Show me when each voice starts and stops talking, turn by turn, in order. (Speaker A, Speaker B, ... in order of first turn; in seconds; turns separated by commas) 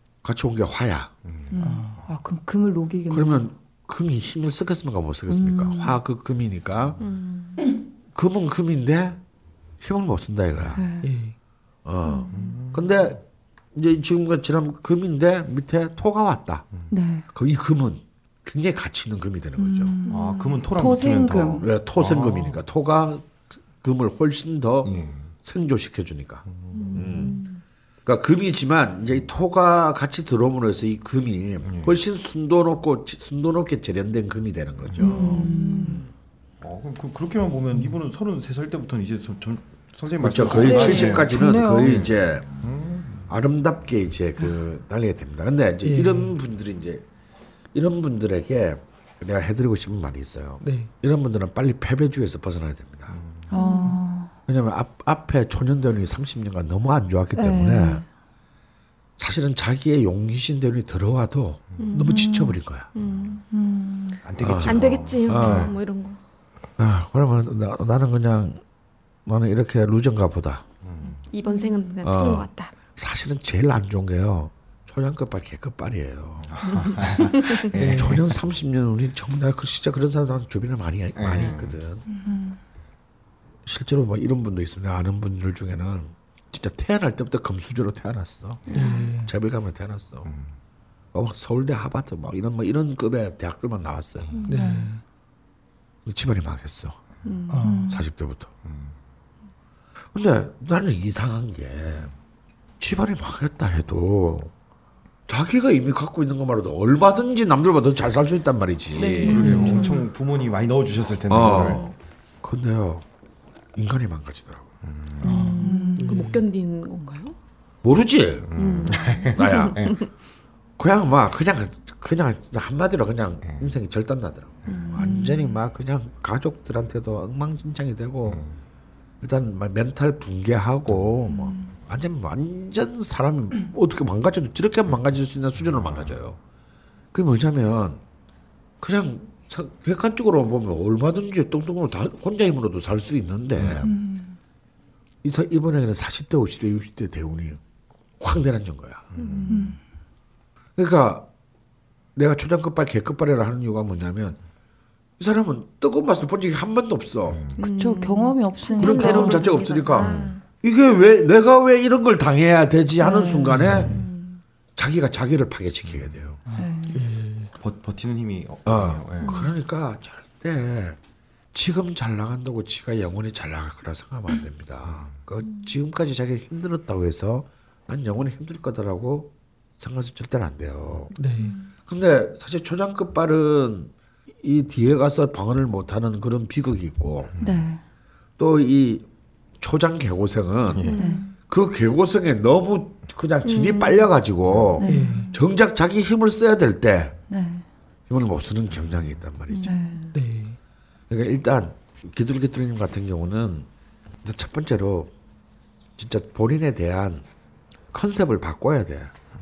Speaker A: 0.2-1.1, Speaker B: 1.2-2.1, Speaker C: 1.5-3.5, Speaker D: 1.6-2.0, Speaker A: 3.1-7.0, Speaker C: 5.3-6.0, Speaker E: 7.0-7.6, Speaker A: 8.1-9.2, Speaker A: 9.8-10.8, Speaker C: 10.7-11.1, Speaker D: 11.0-11.3, Speaker A: 11.8-13.2, Speaker C: 12.0-12.3, Speaker B: 12.3-13.0, Speaker A: 13.7-16.7, Speaker C: 16.9-17.2, Speaker A: 17.3-20.0, Speaker C: 19.6-21.7, Speaker E: 20.1-20.4, Speaker B: 20.1-22.6, Speaker A: 21.6-27.4, Speaker B: 24.8-25.3, Speaker B: 26.4-27.3, Speaker E: 26.7-27.6, Speaker A: 28.1-36.1, Speaker B: 31.6-31.9, Speaker B: 34.9-35.5, Speaker E: 35.0-35.8, Speaker C: 35.0-36.0, Speaker B: 36.6-43.3, Speaker A: 40.2-42.6, Speaker C: 40.6-42.0, Speaker E: 40.6-41.2, Speaker A: 43.3-47.0, Speaker D: 45.8-46.3, Speaker A: 47.7-53.2, Speaker D: 50.6-50.9, Speaker B: 53.1-53.5, Speaker C: 53.5-54.3, Speaker E: 53.6-54.0, Speaker A: 54.5-58.0, Speaker C: 57.4-58.0, Speaker A: 59.2-62.9, Speaker E: 61.8-62.3, Speaker C: 61.9-62.6, Speaker E: 62.9-63.4, Speaker B: 63.0-63.4, Speaker C: 63.5-64.2, Speaker B: 64.2-65.7, Speaker A: 64.4-65.7, Speaker E: 64.5-66.2, Speaker A: 66.8-68.6, Speaker A: 69.2-70.7, Speaker B: 70.8-71.2, Speaker E: 71.3-72.7, Speaker C: 71.5-71.7, Speaker A: 72.0-76.8, Speaker B: 76.4-78.1, Speaker E: 77.3-77.6, Speaker A: 77.7-82.0, Speaker D: 77.8-78.2, Speaker B: 81.2-81.8, Speaker C: 82.1-82.6, Speaker A: 83.7-88.7, Speaker E: 88.7-88.9, Speaker C: 88.7-89.1, Speaker D: 88.8-89.3, Speaker A: 89.2-90.3, Speaker B: 90.2-90.5, Speaker A: 91.1-94.4, Speaker C: 94.4-94.9, Speaker D: 94.5-95.0, Speaker A: 96.0-97.0, Speaker E: 97.2-97.8, Speaker D: 97.5-97.8, Speaker C: 97.6-98.0, Speaker A: 97.9-98.5, Speaker B: 98.7-98.9, Speaker A: 100.1-102.1, Speaker A: 102.8-104.5, Speaker A: 105.3-109.7, Speaker E: 108.9-109.9, Speaker B: 109.2-111.9, Speaker C: 109.3-110.1, Speaker A: 111.3-113.0, Speaker A: 113.8-114.7, Speaker B: 114.8-115.4, Speaker C: 115.2-116.2, Speaker D: 115.2-116.4, Speaker E: 115.3-117.3, Speaker A: 117.8-118.6, Speaker B: 118.5-120.0, Speaker E: 118.5-120.1, Speaker A: 119.3-119.9, Speaker A: 120.8-128.4, Speaker B: 124.7-125.0, Speaker C: 125.0-125.5, Speaker B: 128.3-128.5, Speaker A: 129.2-136.4, Speaker C: 131.3-131.6, Speaker A: 137.1-138.0, Speaker A: 138.8-143.9, Speaker B: 143.6-143.9, Speaker C: 143.8-144.3, Speaker A: 145.2-147.6, Speaker A: 148.2-149.0, Speaker B: 149.1-149.8, Speaker E: 149.2-149.6, Speaker C: 149.5-149.8, Speaker A: 150.8-151.3, Speaker A: 152.1-154.4, Speaker A: 155.2-157.4, Speaker B: 157.3-157.6, Speaker E: 157.6-160.4, Speaker C: 157.6-159.8, Speaker A: 158.7-164.0, Speaker B: 160.0-160.3, Speaker C: 163.0-164.1, Speaker B: 163.7-164.0, Speaker E: 163.9-164.4, Speaker A: 164.8-166.4, Speaker B: 165.8-166.2, Speaker D: 166.4-167.5, Speaker C: 166.5-167.0, Speaker B: 167.6-169.3, Speaker A: 168.7-171.0, Speaker A: 171.5-181.1, Speaker B: 174.8-175.1, Speaker D: 181.2-181.5, Speaker C: 181.4-181.7, Speaker A: 181.9-187.3, Speaker C: 187.4-187.8, Speaker A: 188.4-189.1, Speaker A: 189.6-190.9, Speaker B: 190.7-191.0, Speaker E: 190.8-191.2, Speaker C: 190.9-191.3, Speaker A: 191.5-197.2, Speaker E: 193.4-194.1, Speaker B: 194.5-194.8, Speaker C: 194.8-195.3, Speaker D: 194.8-195.2, Speaker C: 197.3-197.7, Speaker A: 198.1-199.8, Speaker E: 199.5-200.1, Speaker C: 199.6-200.1, Speaker D: 200.1-200.6, Speaker A: 201.1-203.7, Speaker A: 204.2-205.1, Speaker A: 206.0-207.2, Speaker A: 207.9-209.1